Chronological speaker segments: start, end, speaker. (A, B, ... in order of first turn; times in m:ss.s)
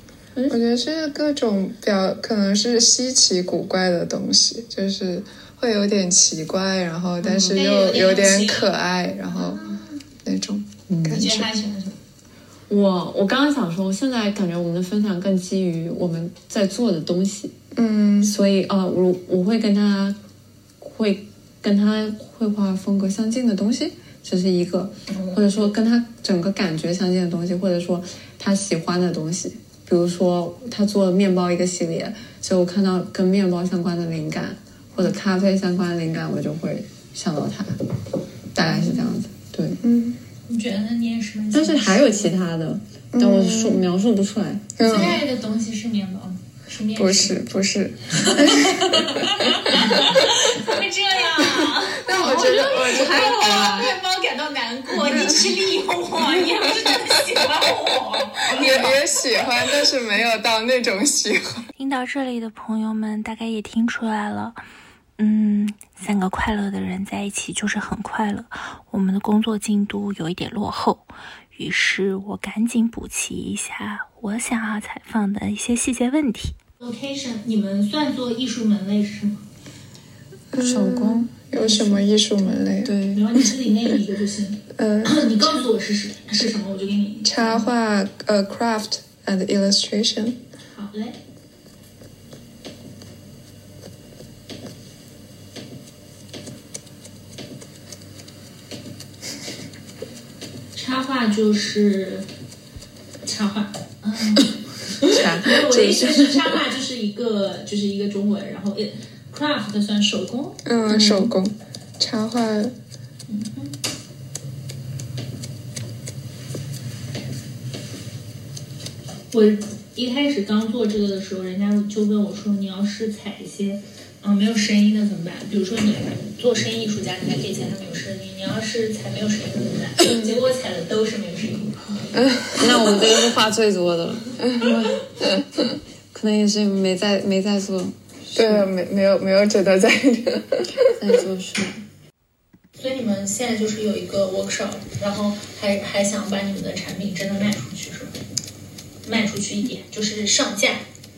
0:00.5-0:09.7 A
0:07.2-0:07.6 B
0:07.3-0:08.7 C
0:09.3-0:09.9 C
0:10.2-0:11.5 A
0:10.9-0:11.3 B
0:11.1-0:12.0 C
0:12.7-0:17.5 B
0:17.7-0:18.3 A
0:18.2-0:20.2 B
0:20.8-0:37.8 B
0:25.1-0:25.5 C
0:38.5-0:39.8 B
0:38.7-0:39.1 C
0:39.8-0:40.2 A
0:40.5-0:42.3 C
0:41.5-0:45.2 B
0:43.1-0:43.9 A
0:44.8-0:45.2 A
0:44.8-0:47.4 C
0:47.0-0:50.2 A
0:48.2-0:59.6 C
0:52.0-0:53.9 A
0:52.9-0:53.8 B
0:55.0-0:55.5 A
0:58.5-1:01.7 A
1:01.8-1:04.6 D
1:05.2-1:16.6 D
1:16.8-1:19.4 C
1:20.5-1:22.9 A
1:20.6-1:21.3 B
1:21.5-1:22.5 C
1:22.8-1:23.4 B
1:23.1-1:27.7 C
1:24.8-1:25.3 A
1:27.2-1:30.4 A
1:30.7-1:31.2 C
1:40.7-1:42.3 C
1:43.2-1:51.1 C
1:45.1-1:46.4 B
1:50.6-1:52.7 A
1:51.0-1:51.2 B
1:53.3-1:53.7 C
1:59.3-2:11.8 C
2:12.2-2:12.6 A
2:12.6-2:15.1 B
2:16.1-2:18.7 B
2:18.4-2:20.9 A
2:20.9-2:21.8 B
2:22.8-2:28.1 C
2:29.0-2:30.8 C